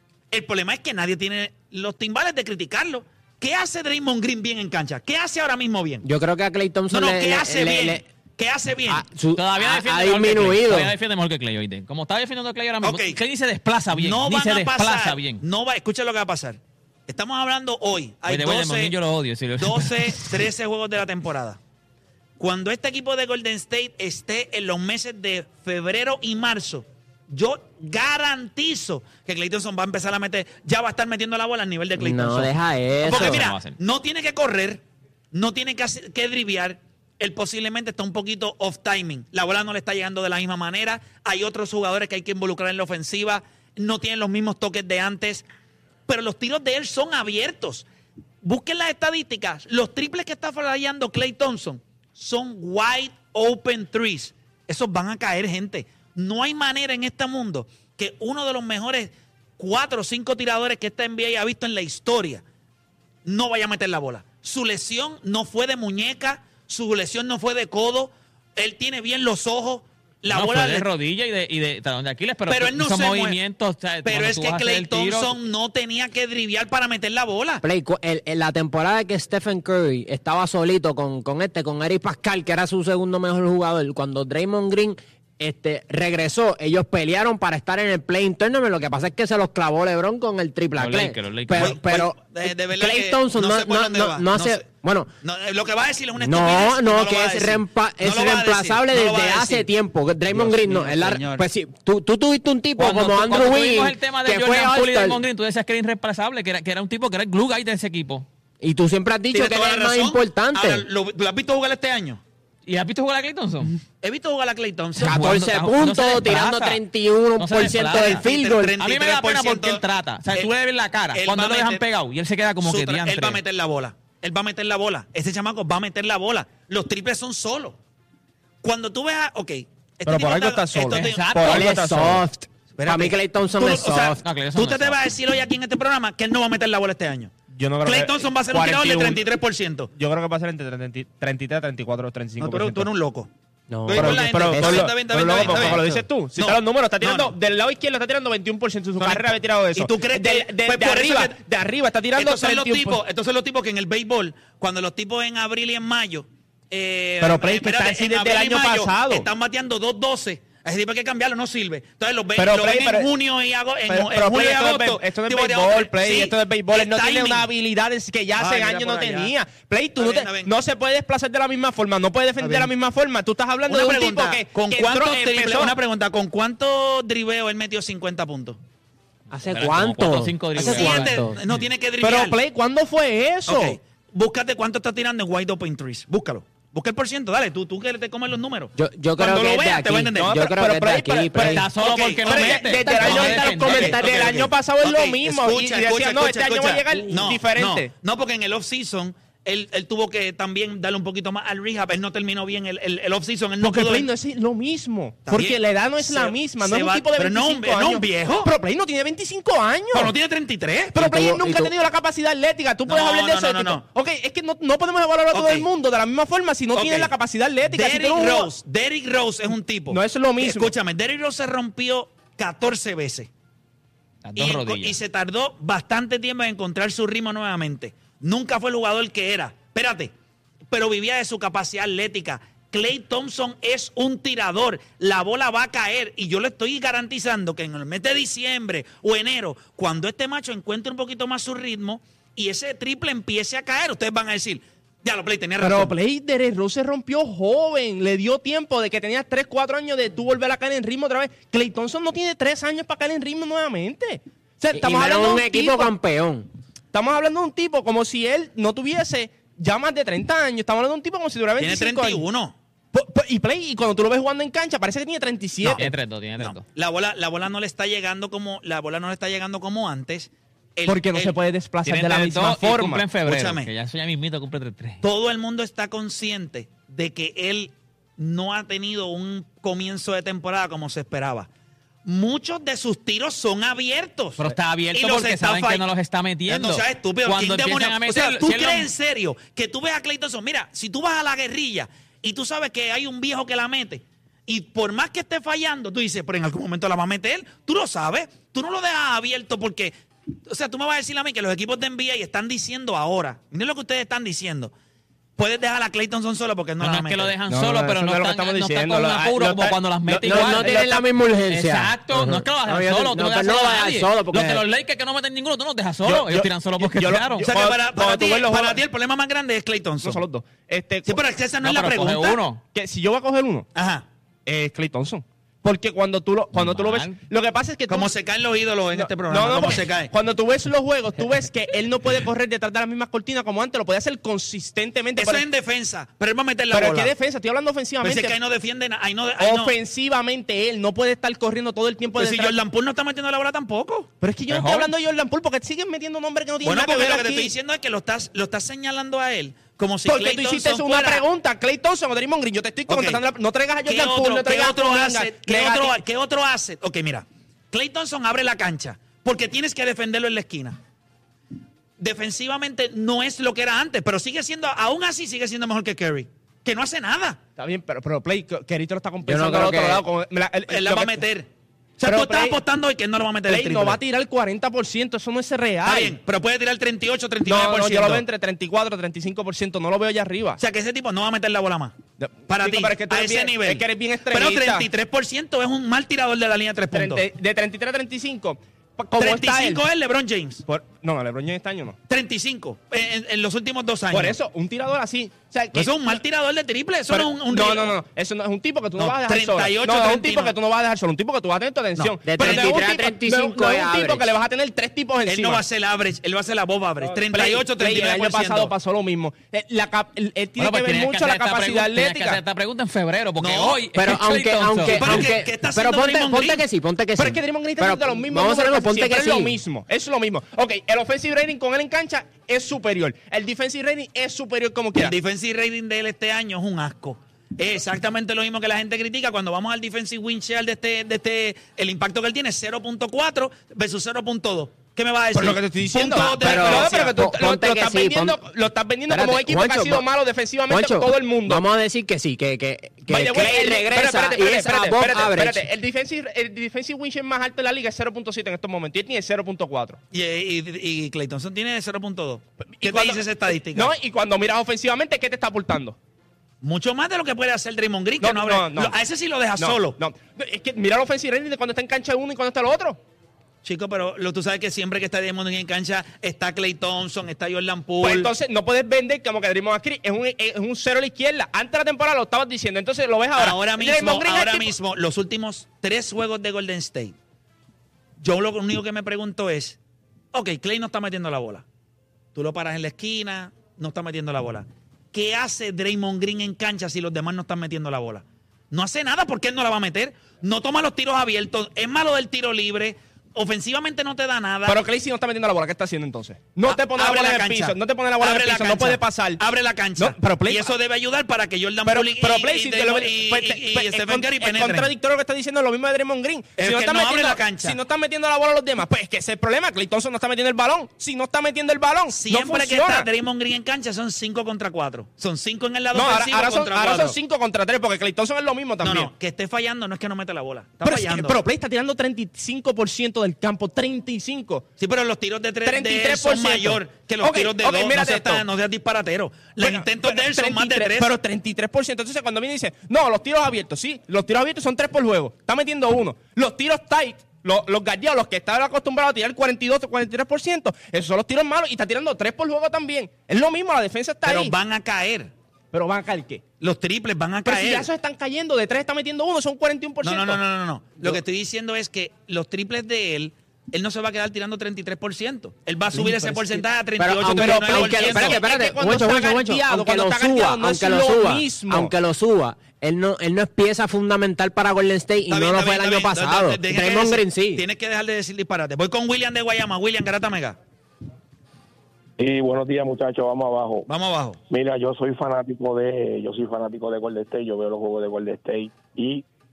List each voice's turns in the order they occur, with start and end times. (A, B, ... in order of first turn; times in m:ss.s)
0:00.3-0:06.0 A
0:06.0-0:08.0 B
0:06.9-0:09.0 A
0:08.9-0:10.9 B
0:09.4-0:15.4 C
0:12.8-0:13.2 A
0:13.9-0:18.9 A
0:18.3-0:20.3 C
0:19.6-0:21.6 A
0:22.4-0:32.5 A
0:32.0-0:33.4 B
0:33.0-0:45.4 A
0:33.0-0:33.8 C
0:46.1-0:47.8 A
0:48.4-1:02.4 A
1:03.2-1:10.9 A
1:10.3-1:15.4 C
1:12.5-1:13.4 A
1:14.0-1:17.6 A
1:17.6-1:35.1 B
1:30.8-1:31.8 C
1:31.6-1:34.6 A
1:35.2-1:39.7 A
1:36.2-1:45.2 B
1:40.3-1:41.4 A
1:42.8-1:48.2 C
1:48.6-1:50.8 B
1:49.3-1:52.2 A
1:52.6-1:53.7 C
1:54.0-1:55.3 A
1:55.0-1:58.7 B
1:55.0-1:56.8 C
1:57.4-1:58.2 C
1:57.9-1:59.8 A
1:58.8-2:03.4 C
2:01.1-2:01.8 A
2:02.6-2:07.8 A
2:08.6-2:11.3 A
2:10.0-2:12.2 D
2:10.9-2:11.7 C
2:11.4-2:14.2 B
2:12.8-2:19.9 A
2:14.2-2:15.0 C
2:17.5-2:19.3 D
2:19.9-2:22.9 D
2:22.4-2:23.3 A
2:23.7-2:26.0 B
2:23.8-2:27.3 A
2:23.9-2:33.0 D
2:29.0-2:31.4 A
2:32.1-2:47.5 A
2:37.2-2:39.3 D
2:42.4-2:43.1 D
2:43.9-2:55.8 D
2:48.4-2:49.3 A
2:50.0-2:50.5 A
2:52.4-2:52.7 A
2:53.7-2:58.6 A
2:59.3-3:01.4 B
2:59.5-3:01.3 C
3:00.6-3:02.4 A
3:02.0-3:03.8 D
3:03.5-3:10.4 A
3:08.7-3:11.6 B
3:10.2-3:17.9 D
3:11.4-3:14.0 C
3:11.8-3:14.1 A
3:12.6-3:14.5 B
3:14.8-3:24.1 A
3:23.6-3:30.1 D
3:25.2-3:28.5 A
3:29.9-3:31.0 A
3:30.9-3:38.5 D
3:31.0-3:31.7 B
3:32.8-3:33.8 A
3:35.3-3:35.7 A
3:36.7-3:37.1 A
3:37.6-3:43.3 A
3:39.9-3:40.7 D
3:44.2-3:45.0 C
3:44.4-3:50.1 A
3:50.7-4:05.9 A
4:05.6-4:15.9 D
4:14.7-4:16.5 B
4:16.9-4:22.2 D
4:21.6-4:22.6 A
4:22.9-4:25.9 D
4:25.6-4:31.4 A
4:25.8-4:26.6 C
4:30.8-4:33.0 D
4:31.9-4:35.0 C
4:33.2-4:33.7 A
4:35.0-4:41.5 A
4:42.0-4:45.8 A
4:44.4-4:48.9 C
4:46.5-4:59.9 A
5:00.4-5:04.7 A
5:05.4-5:07.3 A
5:06.8-5:17.5 C
5:07.5-5:11.0 D
5:10.2-5:14.6 B
5:16.0-5:18.8 D
5:17.4-5:20.2 A
5:20.0-5:21.2 D
5:21.0-5:22.4 A
5:21.6-5:22.6 C
5:22.7-5:23.7 D
5:23.7-5:24.0 A
5:24.4-5:28.1 D
5:26.5-5:27.2 C
5:27.9-5:30.1 A
5:28.9-5:35.4 D
5:35.2-5:37.1 A
5:36.7-5:38.4 D
5:38.0-5:39.8 A
5:39.4-5:42.6 D
5:42.1-5:44.1 A
5:44.2-5:47.5 D
5:44.5-5:44.9 C
5:46.6-5:51.2 A
5:50.0-5:56.0 D
5:52.9-5:53.2 A
5:53.8-6:00.8 A
6:02.0-6:07.4 A
6:07.6-6:11.2 D
6:09.2-6:10.0 B
6:10.7-6:11.5 A
6:12.0-6:14.0 A
6:12.0-6:12.6 D
6:13.5-6:16.2 D
6:15.8-6:18.2 A
6:17.4-6:20.6 D
6:20.6-6:21.9 A
6:22.2-6:24.9 D
6:22.5-6:27.2 A
6:26.9-6:29.8 D
6:29.2-6:30.6 A
6:30.6-6:32.0 D
6:32.1-6:34.4 A
6:34.1-6:36.2 D
6:35.7-6:38.0 A
6:37.1-6:45.6 D
6:39.0-6:40.6 A
6:42.0-6:42.8 A
6:42.2-6:44.3 B
6:45.2-6:48.7 A
6:47.0-6:52.4 D
6:50.6-6:55.3 C
6:53.4-6:53.8 A
6:53.9-6:59.6 B
6:54.9-6:56.6 A
6:57.2-7:05.1 D
7:04.9-7:17.1 A
7:15.3-7:21.6 D
7:16.3-7:18.4 B
7:19.1-7:20.1 B
7:20.7-7:25.7 B
7:23.1-7:30.0 D
7:30.1-7:33.9 A
7:32.6-7:36.0 D
7:36.6-7:40.0 A
7:38.2-7:39.0 D
7:39.6-7:43.0 D
7:43.6-7:48.3 A
7:48.0-7:54.7 D
7:53.4-7:57.1 A
7:58.2-7:59.8 A
8:00.3-8:01.6 A
8:02.3-8:14.8 A
8:14.6-8:19.4 D
8:16.6-8:24.9 A
8:20.0-8:20.7 D
8:21.8-8:33.1 D
8:26.6-8:27.8 A
8:32.1-8:37.2 A
8:35.9-8:39.1 D
8:38.8-8:41.4 A
8:40.8-8:44.6 D
8:44.8-8:51.1 A
8:45.6-8:48.4 D
8:49.6-9:04.5 D
9:04.2-9:05.3 A
9:05.7-9:06.4 D
9:06.6-9:07.9 A
9:07.4-9:10.4 D
9:10.0-9:18.4 A
9:15.9-9:16.6 D
9:17.0-9:27.6 B
9:17.2-9:21.9 D
9:25.3-9:30.6 A
9:32.2-9:33.9 E
9:33.9-9:34.4 A
9:34.5-9:39.2 E